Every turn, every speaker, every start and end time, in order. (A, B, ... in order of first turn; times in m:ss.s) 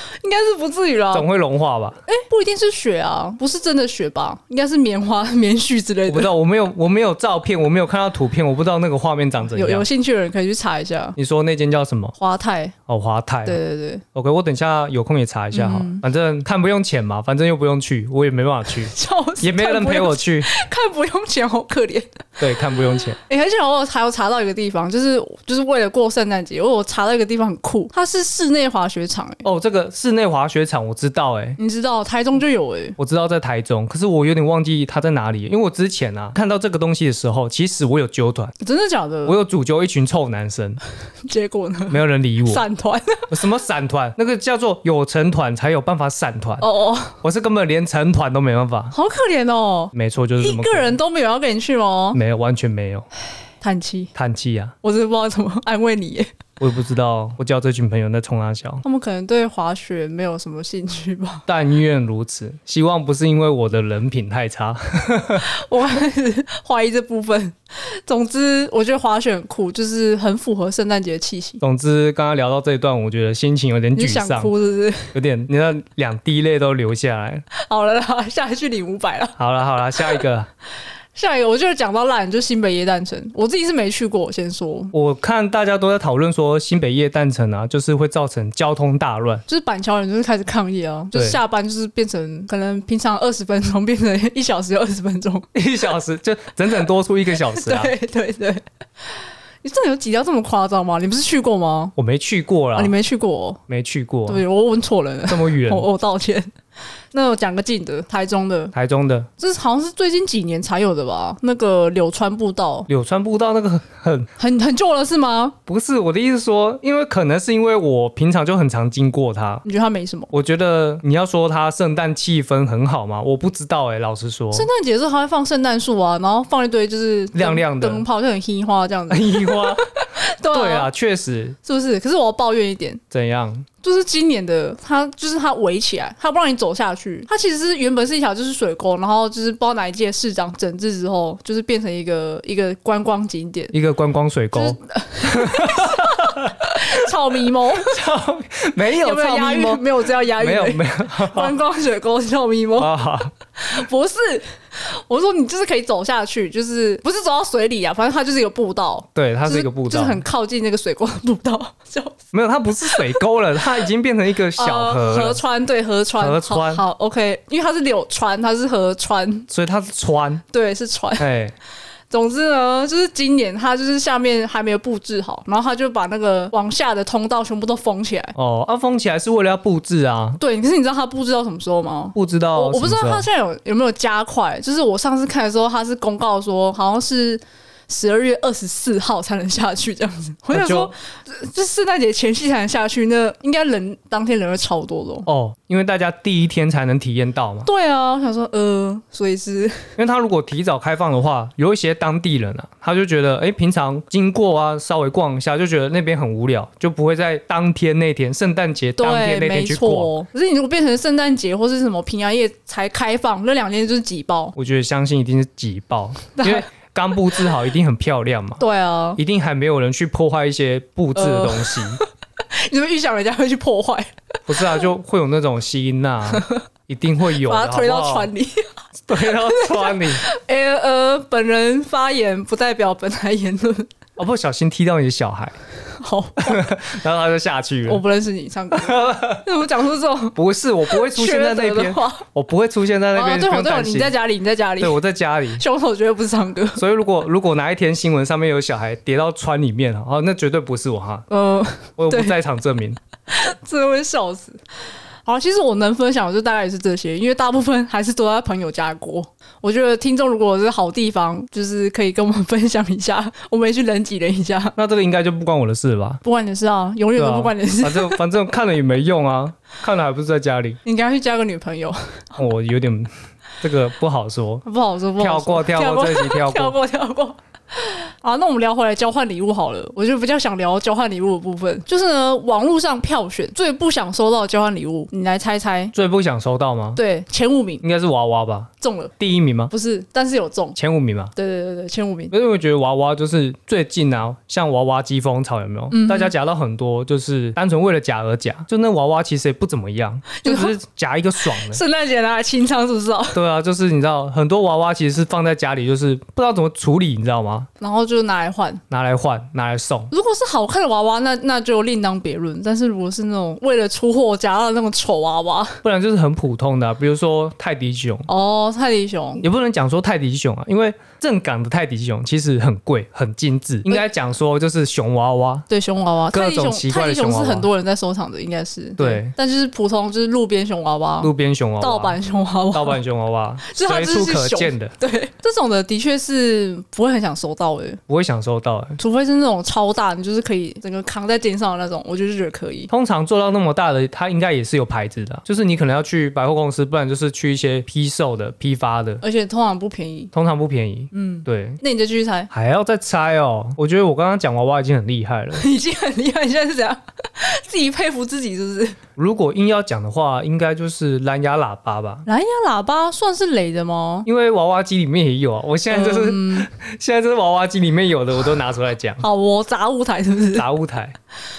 0:00.1-0:01.3 A
0:01.1-0:02.0 B
0:02.1-0:06.3 A
0:06.1-0:09.9 B
0:09.5-0:11.2 A
0:11.2-0:12.2 B
0:12.2-0:12.8 A
0:12.9-0:13.6 B
0:13.4-0:14.0 A
0:14.2-0:20.5 B
0:15.5-0:16.0 A
0:18.8-0:22.4 A
0:22.4-0:23.2 B
0:23.2-0:29.4 A
0:29.4-0:31.6 B
0:31.6-0:33.0 A
0:33.0-0:38.5 B
0:38.6-0:39.4 A
0:39.3-0:40.8 B
0:41.3-0:43.3 A
0:41.9-0:42.6 B
0:43.3-0:46.7 B
0:46.6-0:47.2 A
0:47.2-0:48.9 B
0:48.9-0:52.2 A
0:49.9-0:51.0 B
0:52.1-0:53.1 B
0:53.6-0:54.1 A
0:54.2-0:54.7 B
0:54.8-0:56.3 A
0:56.6-0:58.8 B
0:58.8-1:01.4 A
1:01.5-1:05.5 B
1:05.4-1:11.6 A
1:11.6-1:14.5 B
1:14.0-1:15.2 A
1:15.1-1:17.4 B
1:17.5-1:19.4 A
1:19.4-1:20.5 B
1:21.2-1:24.9 A
1:24.9-1:29.4 B
1:29.5-1:35.5 A
1:35.5-1:37.9 B
1:37.5-1:41.9 A
1:42.0-1:42.9 B
1:42.8-1:43.6 A
1:43.7-1:44.4 B
1:44.3-1:46.5 A
1:45.3-1:45.9 B
1:47.1-1:48.7 A
1:48.7-1:49.3 B
1:49.4-1:52.9 A
1:52.9-1:54.3 B
1:54.4-1:55.6 A
1:55.7-1:59.6 B
1:59.6-2:00.3 A
2:00.3-2:04.7 B
2:04.5-2:10.9 A
2:07.3-2:08.0 B
2:09.1-2:09.9 B
2:10.4-2:11.6 B
2:11.6-2:13.0 A
2:13.1-2:13.7 B
2:13.8-2:23.7 A
2:23.7-2:27.0 B
2:24.5-2:28.0 A
2:27.7-2:31.6 B
2:28.9-2:32.9 A
2:32.8-2:33.3 B
2:33.6-2:42.2 A
2:39.2-2:40.2 B
2:42.3-2:45.4 B
2:42.8-2:43.2 A
2:44.6-2:49.5 A
2:46.2-2:46.8 B
2:49.5-2:50.4 B
2:50.5-2:51.3 A
2:51.2-2:51.5 B
2:52.1-2:58.3 A
2:58.4-3:00.4 B
3:00.4-3:15.3 A
3:02.2-3:03.3 B
3:10.5-3:10.9 B
3:15.3-3:17.7 B
3:17.6-3:20.0 A
3:20.0-3:30.1 B
3:29.0-3:34.6 A
3:34.6-3:38.6 B
3:36.4-3:36.7 A
3:38.6-3:39.2 A
3:39.2-3:42.0 B
3:41.2-3:44.1 A
3:44.5-3:48.3 B
3:46.3-3:46.6 A
3:47.4-3:48.7 A
3:49.1-3:50.2 B
3:49.2-3:53.9 A
3:54.2-3:55.6 B
3:56.0-3:56.7 A
3:56.4-3:58.0 B
3:57.9-4:00.4 A
3:58.7-3:59.4 B
4:00.4-4:04.2 B
4:00.9-4:02.2 A
4:03.1-4:05.0 A
4:04.8-4:05.6 B
4:05.6-4:06.8 A
4:06.8-4:11.3 B
4:11.3-4:12.4 A
4:12.0-4:13.0 B
4:13.3-4:14.6 A
4:15.3-4:24.8 A
4:24.8-4:26.2 B
4:26.2-4:28.2 A
4:27.2-4:30.8 B
4:30.8-4:32.2 A
4:32.4-4:33.1 B
4:33.6-4:34.6 B
4:34.7-4:45.9 A
4:35.2-4:36.8 B
4:45.9-4:47.0 B
4:47.0-4:47.8 A
4:47.8-4:49.7 B
4:48.8-4:49.1 A
4:49.7-4:50.8 A
4:50.8-4:51.3 B
4:51.4-4:52.3 A
4:52.3-5:01.8 B
4:55.9-4:56.3 A
5:00.3-5:00.7 A
5:01.4-5:03.4 A
5:03.3-5:07.7 B
5:07.8-5:08.8 A
5:08.9-5:10.1 B
5:10.1-5:15.8 A
5:15.8-5:18.3 B
5:18.3-5:19.4 A
5:19.4-5:25.6 B
5:25.7-5:33.0 A
5:26.3-5:27.7 B
5:29.0-5:29.3 B
5:31.2-5:32.2 B
5:32.7-5:34.9 B
5:33.6-5:38.0 A
5:38.1-5:39.0 B
5:39.0-5:42.9 A
5:42.9-5:49.2 B
5:49.2-5:50.3 A
5:50.3-5:51.8 B
5:51.1-5:52.5 A
5:52.5-5:55.6 B
5:55.6-5:59.0 A
5:59.2-6:02.3 B
6:02.3-6:04.3 A
6:04.3-6:09.2 B
6:05.9-6:06.7 A
6:09.2-6:10.7 A
6:10.5-6:11.2 B